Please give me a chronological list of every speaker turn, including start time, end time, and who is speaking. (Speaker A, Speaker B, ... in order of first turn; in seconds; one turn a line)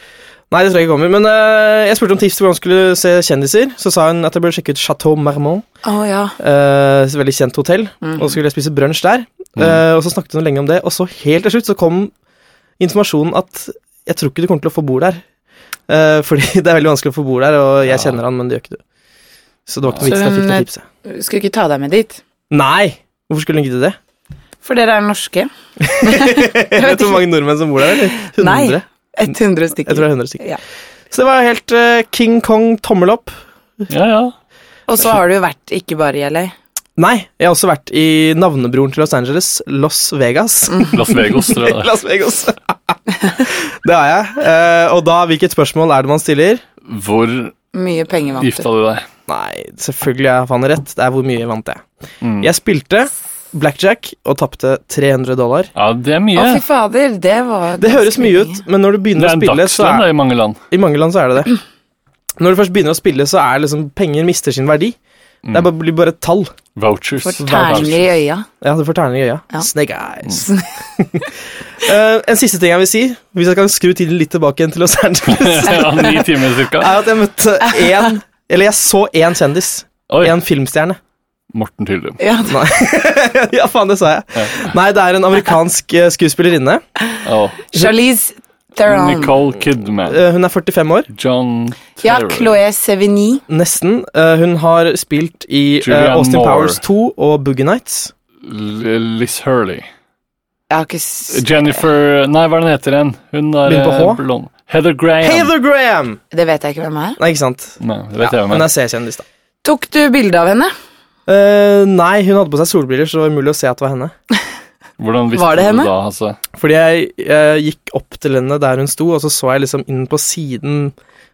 Speaker A: 0.5-5.7
Speaker B: 5.8-6.4
Speaker A: 6.4-12.1
Speaker B: 8.0-8.3
Speaker A: 12.8-15.2
Speaker A: 15.9-18.8
Speaker C: 17.9-18.2
Speaker A: 19.7-20.8
Speaker C: 19.9-20.1
Speaker B: 20.0-22.2
Speaker A: 22.5-24.0
Speaker B: 24.6-25.5
Speaker A: 25.8-28.8
Speaker B: 26.0-27.2
Speaker B: 28.2-30.6
Speaker A: 29.9-30.4
Speaker A: 31.1-33.4
Speaker C: 33.9-34.3
Speaker B: 34.9-36.5
Speaker A: 37.0-46.6
Speaker C: 40.9-42.0
Speaker C: 46.9-47.5
Speaker B: 47.7-48.7
Speaker C: 48.4-49.0
Speaker A: 49.3-51.8
Speaker C: 52.2-52.5
Speaker A: 52.4-55.7
Speaker C: 55.8-56.6
Speaker B: 56.4-58.6
Speaker A: 57.8-60.1
Speaker C: 59.1-60.6
Speaker A: 60.7-61.5
Speaker A: 62.4-65.0
Speaker C: 65.5-65.7
Speaker A: 65.5-66.5
Speaker C: 66.8-68.1
Speaker B: 67.2-68.5
Speaker A: 67.4-68.0
Speaker A: 68.6-71.3
Speaker B: 70.3-70.7
Speaker A: 71.8-81.0
Speaker C: 75.3-77.0
Speaker B: 77.8-78.1
Speaker C: 80.1-80.4
Speaker C: 81.5-82.2
Speaker B: 82.2-82.6
Speaker A: 82.5-86.8
Speaker C: 84.3-84.7
Speaker B: 87.1-89.4
Speaker C: 87.2-87.6
Speaker C: 88.9-90.2
Speaker A: 90.1-91.1
Speaker C: 91.1-92.6
Speaker B: 92.0-93.4
Speaker A: 93.5-98.1
Speaker C: 95.8-96.8
Speaker C: 98.4-99.9
Speaker B: 100.7-101.8
Speaker C: 101.3-105.5
Speaker A: 103.7-104.2
Speaker A: 105.2-106.2
Speaker B: 106.3-107.2
Speaker A: 107.2-109.2
Speaker C: 107.8-108.7
Speaker B: 109.6-110.7
Speaker A: 111.3-114.1
Speaker C: 115.0-116.4
Speaker B: 115.3-115.9
Speaker A: 116.6-120.9